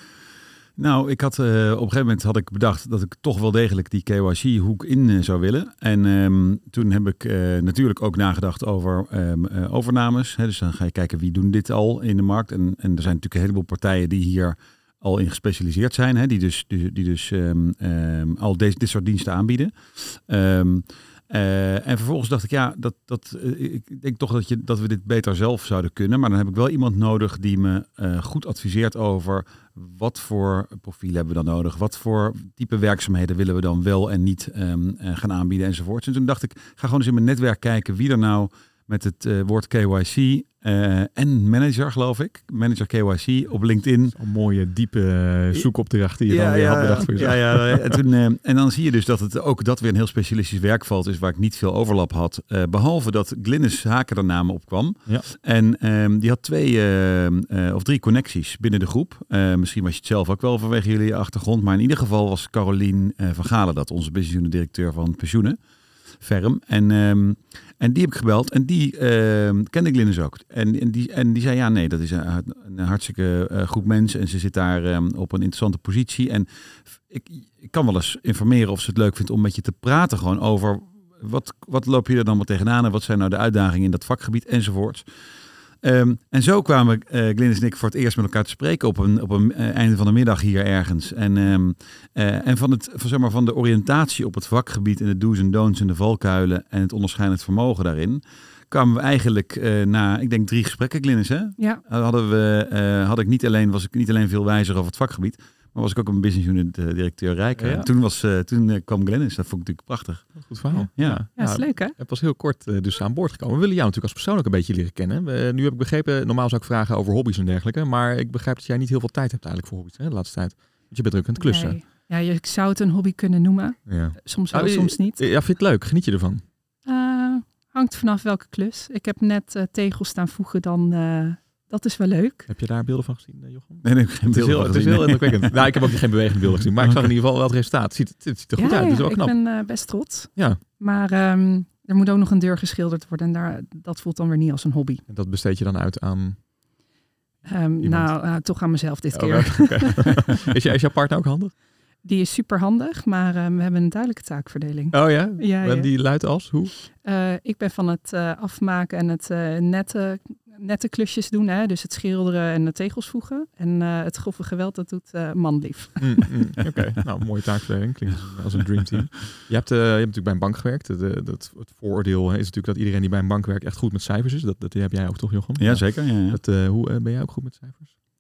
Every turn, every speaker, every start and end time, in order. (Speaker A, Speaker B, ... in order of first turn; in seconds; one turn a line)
Speaker A: 0.8-44.2
Speaker B: 44.1-48.0
Speaker A: 46.3-65.6
Speaker A: 66.2-85.3
Speaker A: 85.8-111.2
Speaker B: 107.6-107.9
Speaker B: 110.4-121.8
Speaker C: 110.7-112.0
Speaker C: 121.4-125.2
Speaker B: 123.9-126.5
Speaker C: 126.8-132.5
Speaker B: 132.5-139.6
Speaker A: 133.8-135.9
Speaker A: 136.8-137.1
Speaker C: 138.6-145.0
Speaker B: 140.3-140.6
Speaker B: 145.1-146.5
Speaker C: 147.4-150.2
Speaker B: 147.8-151.6
Speaker C: 152.0-166.4
Speaker B: 154.9-156.7
Speaker B: 166.0-177.9
Speaker A: 175.6-176.4